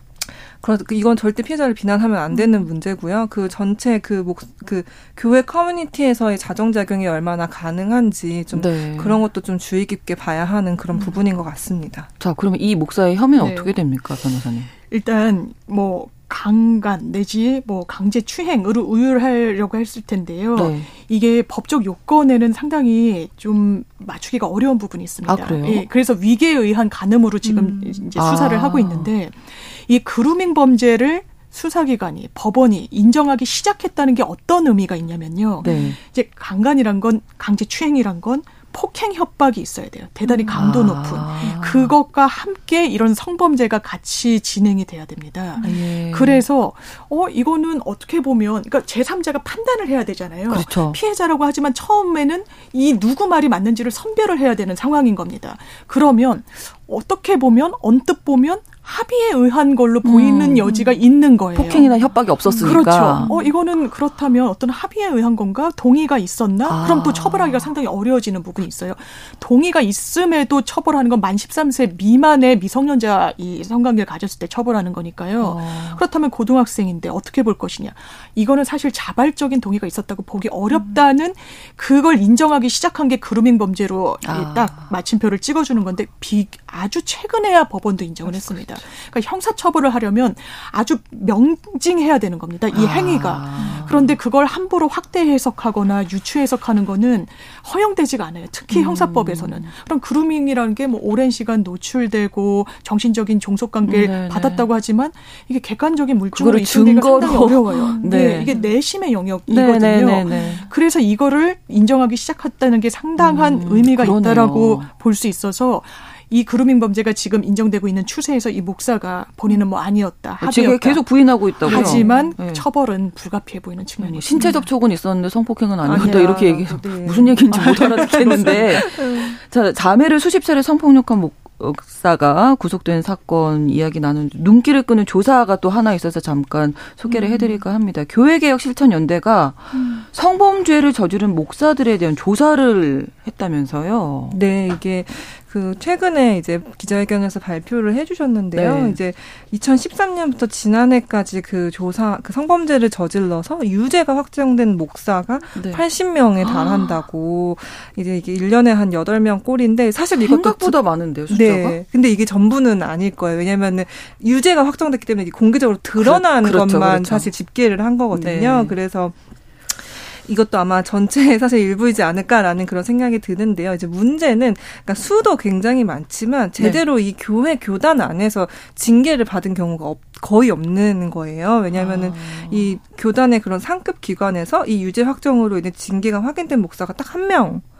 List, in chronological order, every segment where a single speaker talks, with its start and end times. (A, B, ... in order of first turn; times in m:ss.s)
0:00.2-0:12.1 A
0:08.5-0:09.2 B
0:12.2-0:14.7 B
0:13.4-0:13.7 C
0:14.9-1:01.9 C
0:20.5-0:20.9 B
0:25.2-0:25.9 B
0:27.4-0:28.0 A
0:28.2-0:29.1 B
0:35.6-0:35.9 A
0:35.6-0:36.0 B
0:40.5-0:41.9 B
0:45.6-0:46.4 B
0:50.5-0:51.0 B
1:00.0-1:00.7 B
1:01.5-1:03.3 B
1:02.5-1:03.5 A
1:02.6-2:04.5 C
1:06.6-1:07.7 B
1:15.4-1:16.0 B
1:24.2-1:24.9 B
1:28.3-1:28.8 B
1:32.7-1:34.2 B
1:38.7-1:39.7 B
1:43.8-1:44.7 B
1:46.3-1:48.6 B
1:47.9-1:48.7 A
1:49.5-1:50.7 B
1:53.2-1:54.9 B
2:00.4-2:02.6 B
2:01.6-2:02.3 A
2:04.0-2:24.4 B
2:04.3-2:04.6 A
2:05.8-2:09.4 A
2:17.1-2:17.6 A
2:19.7-2:20.0 A
2:24.3-2:49.1 A
2:28.5-2:29.0 B
2:35.5-2:35.8 B
2:36.4-2:37.0 B
2:40.2-2:41.8 B
2:46.0-2:47.3 B
2:48.1-2:48.8 B
2:49.7-3:07.6 A
3:01.7-3:02.8 B